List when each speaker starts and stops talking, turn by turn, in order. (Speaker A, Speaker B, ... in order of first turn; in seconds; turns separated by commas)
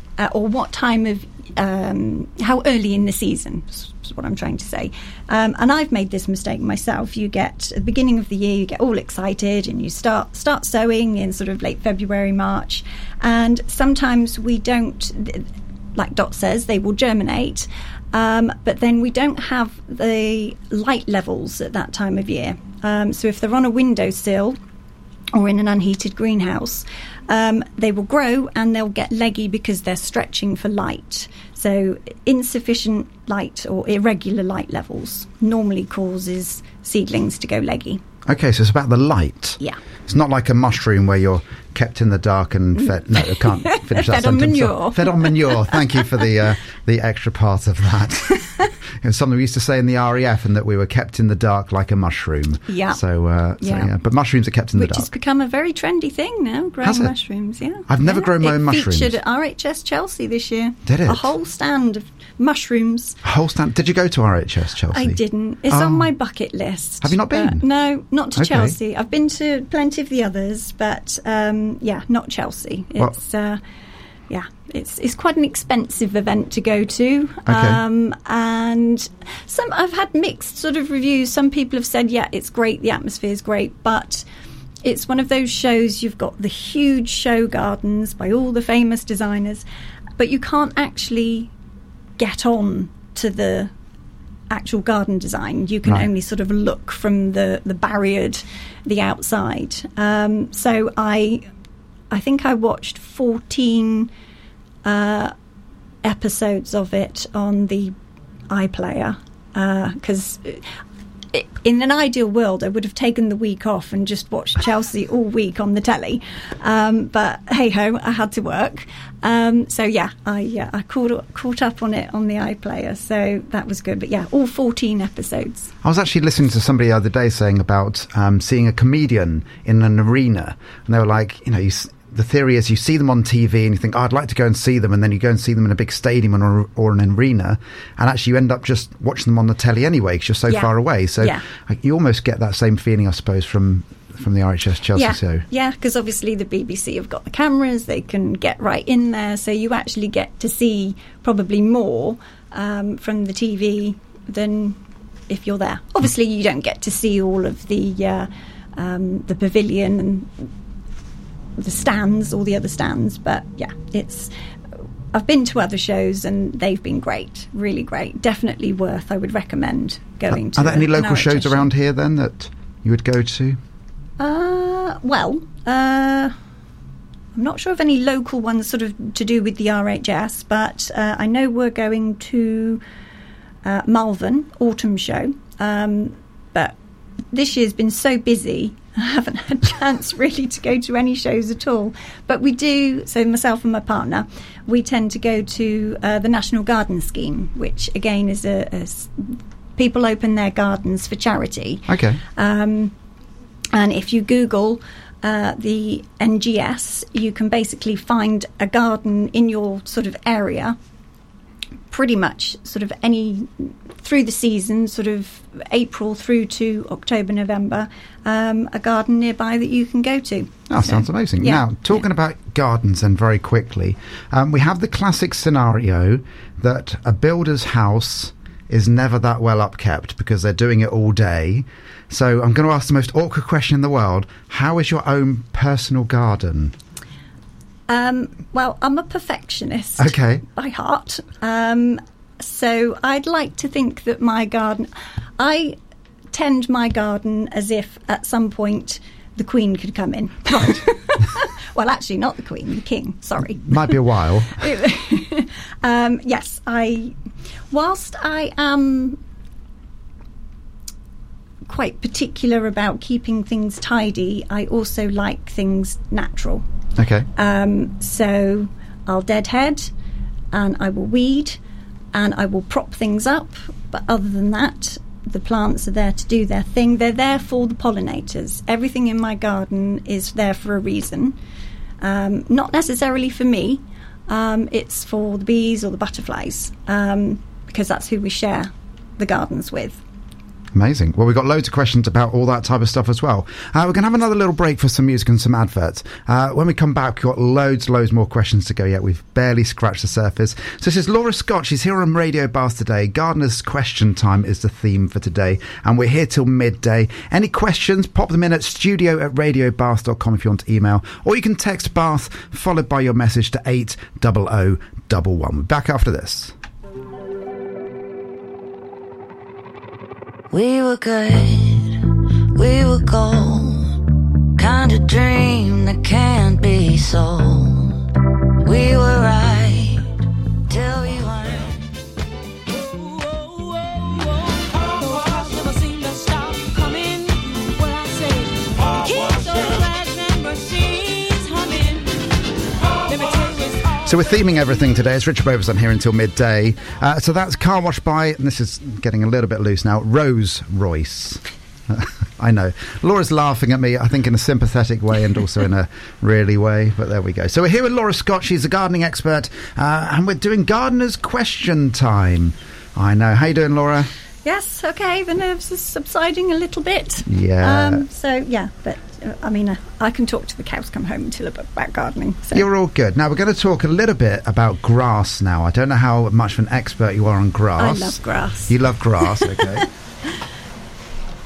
Speaker A: 0.2-24.6, Speaker A: 25.3-38.0, Speaker B: 38.2-55.1, Speaker A: 43.1-46.0, Speaker A: 52.7-53.0, Speaker A: 53.6-53.9, Speaker A: 54.7-63.2, Speaker B: 56.8-57.1, Speaker B: 57.9-59.2, Speaker B: 60.9-61.3, Speaker B: 63.2-66.1, Speaker A: 64.9-73.6, Speaker B: 67.0-67.6, Speaker B: 68.3-68.8, Speaker A: 74.3-84.2, Speaker B: 77.5-77.8, Speaker A: 84.8-89.6, Speaker A: 90.2-91.5, Speaker A: 92.2-93.7, Speaker A: 94.5-101.5, Speaker A: 102.1-104.1, Speaker A: 104.8-105.3, Speaker A: 106.0-107.9, Speaker A: 108.5-110.7, Speaker A: 111.3-125.7, Speaker B: 125.8-145.4, Speaker A: 140.5-141.4, Speaker A: 144.9-160.5, Speaker A: 161.6-164.3, Speaker A: 165.1-171.7, Speaker B: 170.3-173.6, Speaker A: 174.2-176.3, Speaker A: 177.3-182.8, Speaker A: 183.6-186.8, Speaker A: 187.3-202.9, Speaker B: 201.9-202.2, Speaker A: 203.7-210.8, Speaker A: 211.9-221.7, Speaker B: 220.7-236.7, Speaker A: 237.9-245.8, Speaker B: 240.0-240.4, Speaker A: 246.3-254.0, Speaker B: 253.6-254.7, Speaker A: 254.5-257.2, Speaker A: 257.7-259.2, Speaker A: 261.6-266.6, Speaker B: 267.0-267.3, Speaker A: 267.3-269.9, Speaker A: 270.5-271.6, Speaker A: 272.1-281.4, Speaker A: 282.0-290.0, Speaker B: 290.7-316.5, Speaker C: 320.5-328.0, Speaker C: 328.6-331.8, Speaker C: 332.7-344.1, Speaker B: 344.0-364.1, Speaker A: 364.4-372.7, Speaker B: 367.3-368.0, Speaker B: 372.5-379.9, Speaker A: 377.8-379.8